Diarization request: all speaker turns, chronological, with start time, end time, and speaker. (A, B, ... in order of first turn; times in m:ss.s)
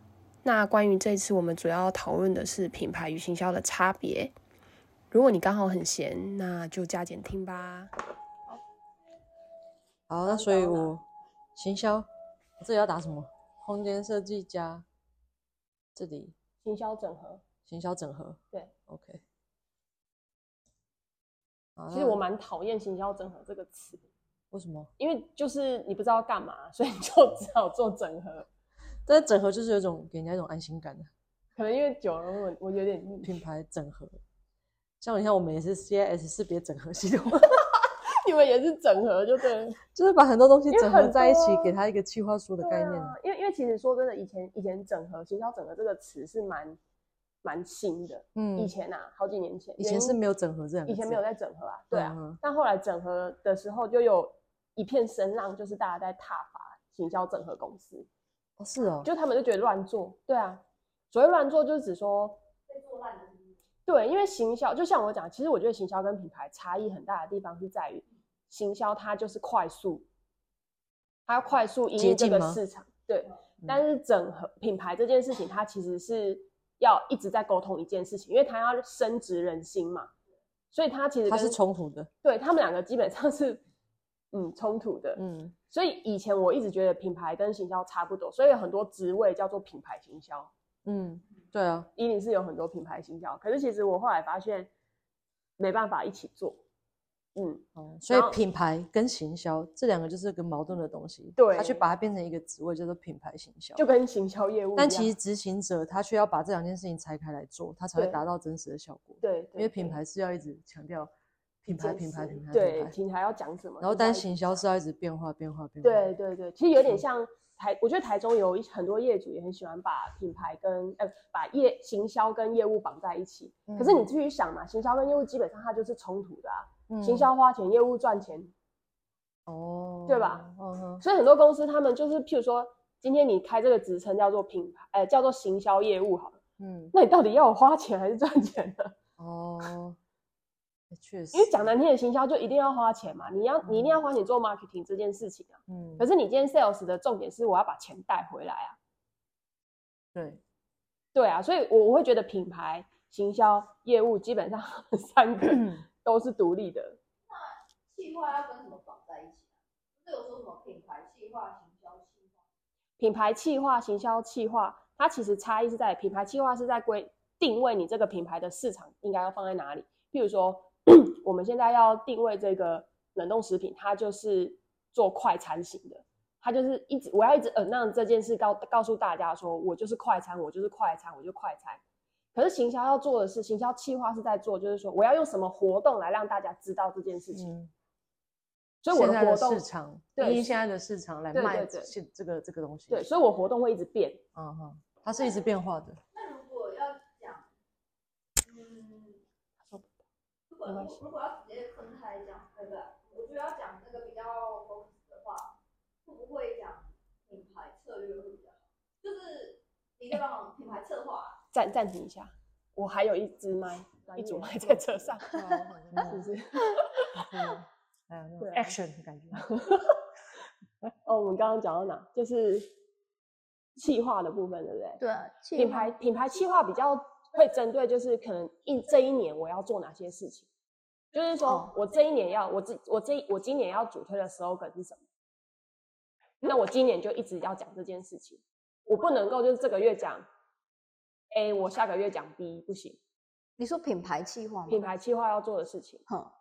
0:00.4-0:04.3 A
0:05.1-0:07.9 A
0:10.1-0:12.1 B
0:10.2-0:10.9 A
0:12.6-0:14.8 B
0:15.9-0:16.3 B
0:16.6-0:17.4 A
0:17.7-0:19.2 B
0:21.8-0:22.2 B
0:21.9-0:24.0 A
0:24.5-0:24.9 B
0:25.0-0:28.5 A
0:29.0-0:31.1 B
0:31.6-0:33.4 A
0:33.2-0:34.2 B
0:35.0-0:37.7 B
0:38.0-0:39.8 A
0:39.9-0:43.2 B
0:40.7-0:41.7 A
0:42.6-0:46.8 A
0:47.4-0:50.2 A
0:48.3-0:48.7 B
0:49.8-0:51.2 B
0:50.9-0:58.1 A
0:51.9-0:52.4 B
0:58.6-0:59.1 B
0:59.0-1:02.4 A
1:02.7-1:03.5 C
1:03.8-1:10.0 A
1:11.3-1:20.1 A
1:12.0-1:12.6 B
1:20.7-1:21.6 A
1:21.3-1:22.1 B
1:22.2-1:23.6 A
1:24.3-1:30.5 A
1:25.2-1:25.5 B
1:30.8-1:31.9 B
1:32.0-1:34.7 A
1:35.6-1:36.6 A
1:37.4-1:38.4 A
1:37.8-1:43.8 B
1:41.4-1:41.8 A
1:43.8-1:45.1 A
1:44.8-1:51.1 B
1:49.2-1:50.0 A
1:51.6-1:53.0 B
1:51.7-1:54.6 A
1:53.8-1:56.1 B
1:55.8-2:08.5 A
2:03.7-2:04.1 B
2:06.9-2:07.3 B
2:09.5-2:11.0 B
2:10.1-2:10.4 A
2:11.0-2:16.4 A
2:16.6-2:16.9 B
2:16.9-2:19.0 A
2:19.2-2:20.0 B
2:20.9-2:21.7 B
2:21.3-2:28.8 A
2:23.6-2:24.0 B
2:25.7-2:26.0 B
2:30.1-2:30.4 B
2:31.1-2:37.0 A
2:35.5-2:35.8 B
2:37.3-2:39.4 C
2:40.0-2:42.2 C
2:43.0-3:01.8 A
3:02.3-3:07.5 A
3:07.3-3:07.7 B
3:08.8-3:09.6 A
3:08.9-3:13.0 B
3:10.2-3:10.5 A
3:11.3-3:11.9 A
3:12.9-3:14.2 A
3:14.3-3:16.0 B
3:16.1-3:17.4 C
3:18.4-3:19.2 C
3:20.5-3:25.5 C
3:20.6-3:21.0 A
3:26.0-3:31.4 C
3:31.5-3:35.3 A
3:35.2-3:36.2 B
3:35.3-3:35.6 C
3:35.9-3:37.2 A
3:37.1-3:39.4 B
3:38.4-3:38.7 A
3:39.4-3:40.0 A
3:41.0-3:42.7 A
3:43.8-3:45.0 A
3:45.0-3:45.9 C
3:45.5-3:50.5 A
3:51.1-3:55.0 A
3:56.4-4:00.2 A
4:01.3-4:03.0 A
4:03.6-4:04.8 C
4:04.7-4:06.0 A